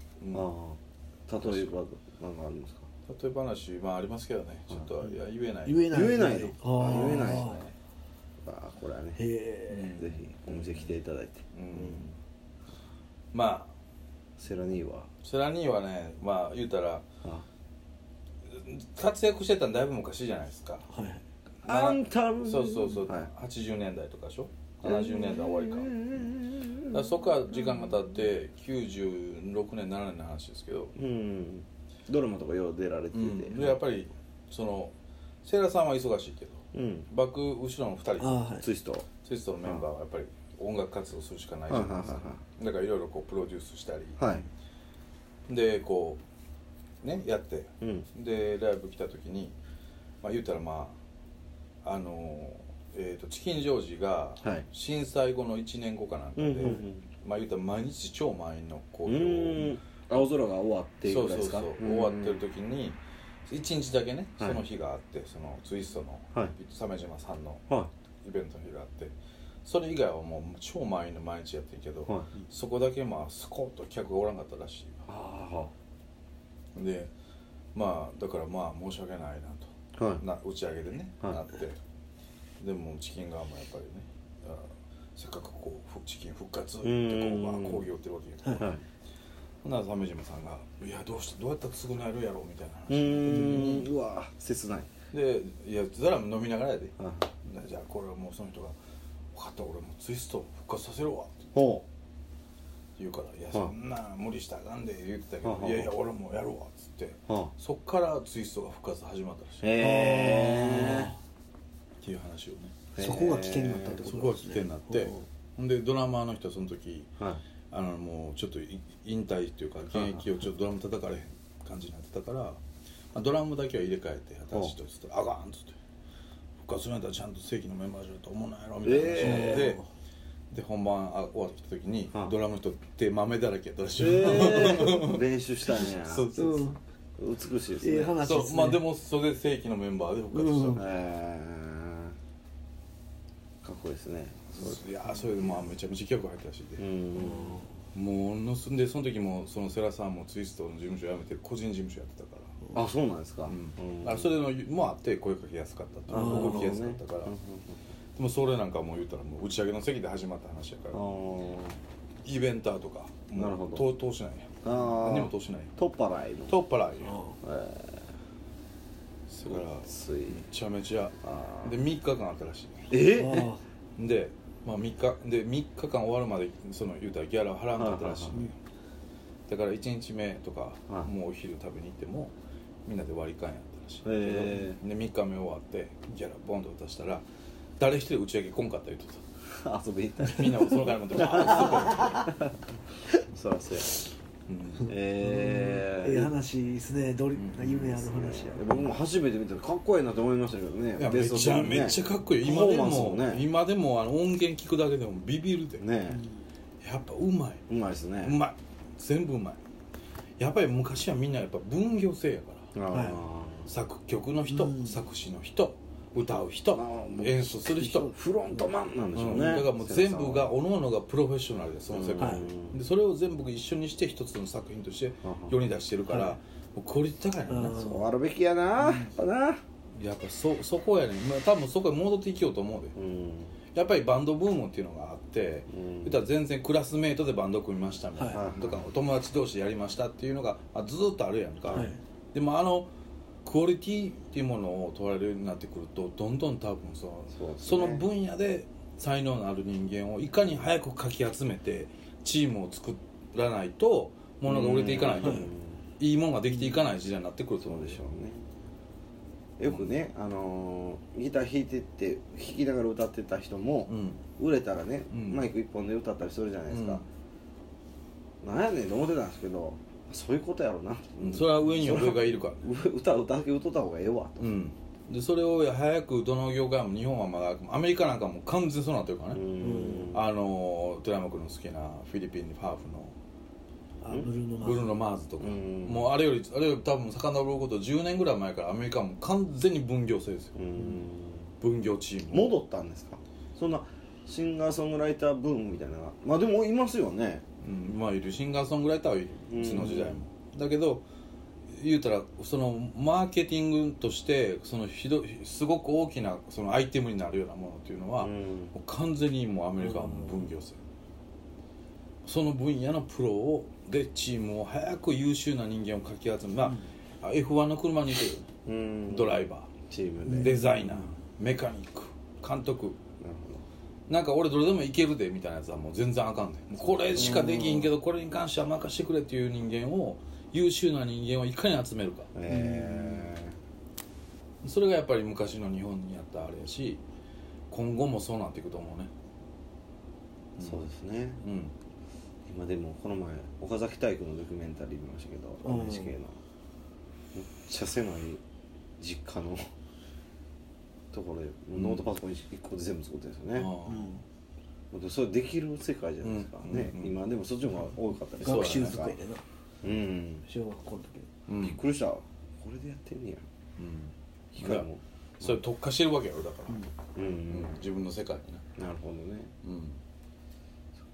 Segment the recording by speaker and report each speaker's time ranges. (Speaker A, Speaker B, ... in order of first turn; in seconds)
Speaker A: 0.2-0.5, 1.4-1.7, 3.0-6.0, 6.7-7.7, 9.7-10.9, 11.5-12.2, 13.3-13.7, 15.2-17.0, 18.4-20.9, 21.6-26.3, 26.9-30.9, 33.1-38.5, 39.2-44.2, 45.5-46.2, 47.0-49.5, 50.2-51.0, 51.8-59.8, 61.0-67.6, 68.2-75.0, 76.7-77.1, 77.7-81.8, 82.6-88.7, 89.6-93.9, 95.1-98.8, 99.3-101.4, 103.0-109.7, 112.0-112.8, 114.0-117.1, 117.7-122.6, 123.1-125.8, 126.6-129.8, 130.5-136.7, 138.2-140.9, 144.6-146.8, 147.9-152.6, 153.5-157.3, 158.2-161.0, 162.2-165.7, 166.5-167.2, 169.3-172.9, 174.0-178.6, 179.5-182.3, 182.8-187.2, 187.8-189.2, 190.2-192.3, 193.3-194.9, 197.3-198.0, 201.0-205.8, 206.8-207.7, 208.2-209.6, 210.4-212.8, 213.7-218.1, 219.1-227.9, 230.0-232.9, 233.7-242.9, 243.4-258.0, 263.9-264.2, 265.1-265.5, 266.7-267.0, 271.2-272.6, 274.4-279.4, 280.1-283.1, 284.6-291.0, 291.6-292.5, 297.6-301.0, 301.7-310.8, 312.2-318.5, 319.1-319.7, 320.3-323.0, 324.1-332.3, 334.6-337.0, 337.7-339.1, 340.6-340.9, 341.4-341.7, 351.7-352.1, 353.6-354.2, 356.2-357.1, 358.4-359.0, 361.5-361.8, 363.8-364.9, 365.4-366.8, 367.5-368.6, 369.6-370.0
Speaker B: 0.3-2.9, 5.9-7.6, 8.4-9.2, 9.9-11.4, 14.4-15.1, 21.6-23.3, 24.8-28.0, 30.9-33.8, 36.7-37.1, 38.6-39.1, 41.7-42.4, 44.2-44.5, 47.8-48.1, 54.4-54.6, 56.4-57.1, 59.0-62.4, 75.1-75.7, 80.0-80.2, 86.8-87.9, 88.5-88.8, 92.9-94.9, 97.0-97.3, 101.5-101.8, 105.4-105.9, 107.3-107.5, 109.6-111.1, 112.9-114.0, 119.9-120.2, 128.8-129.7, 132.1-132.4, 134.0-136.3, 137.2-138.2, 140.7-142.2, 143.6-145.7, 146.8-147.6, 152.7-154.3, 156.1-157.8, 160.9-161.8, 163.3-163.9, 164.6-166.6, 167.4-168.1, 169.5-170.4, 171.2-171.8, 172.9-173.5, 177.7-178.4, 184.0-184.8, 189.5-192.5, 194.8-196.3, 197.9-203.4, 205.8-206.2, 207.7-208.4, 212.7-213.7, 216.7-220.5, 221.9-222.8, 225.2-225.6, 227.6-229.6, 232.9-233.6, 235.7-236.2, 238.3-238.9, 247.3-248.1, 254.4-255.8, 257.6-258.4, 259.6-267.0, 268.4-274.5, 279.3-280.2, 284.0-284.3, 285.4-286.1, 290.6-291.5, 292.3-297.4, 299.5-300.2, 308.2-308.7, 318.6-321.0, 323.2-323.6, 327.1-327.9, 332.3-333.6, 340.6-341.4, 342.5-346.4, 347.3-348.4, 349.0-349.7, 351.1-353.7, 354.9-359.2, 359.8-360.5, 361.6-363.4, 364.5-365.6, 367.1-367.8, 368.8-369.5
Speaker C: 5.6-7.6, 9.2-9.9, 20.9-21.2, 38.2-38.7, 109.8-111.2, 113.0-115.2, 129.2-129.8, 136.3-136.8, 137.8-138.8, 140.3-140.8, 147.2-147.7, 156.1-156.6, 167.0-167.4, 173.1-173.6, 195.2-198.8, 206.1-206.4, 212.9-213.2, 214.5-215.0, 217.7-218.7, 222.2-222.4, 226.1-226.4, 227.5-228.1, 228.8-229.1, 241.7-242.0, 279.6-280.1, 284.0-284.9, 309.8-310.5, 320.3-320.6, 332.5-333.3, 345.6-346.1, 353.9-354.2, 358.4-359.4, 360.4-361.3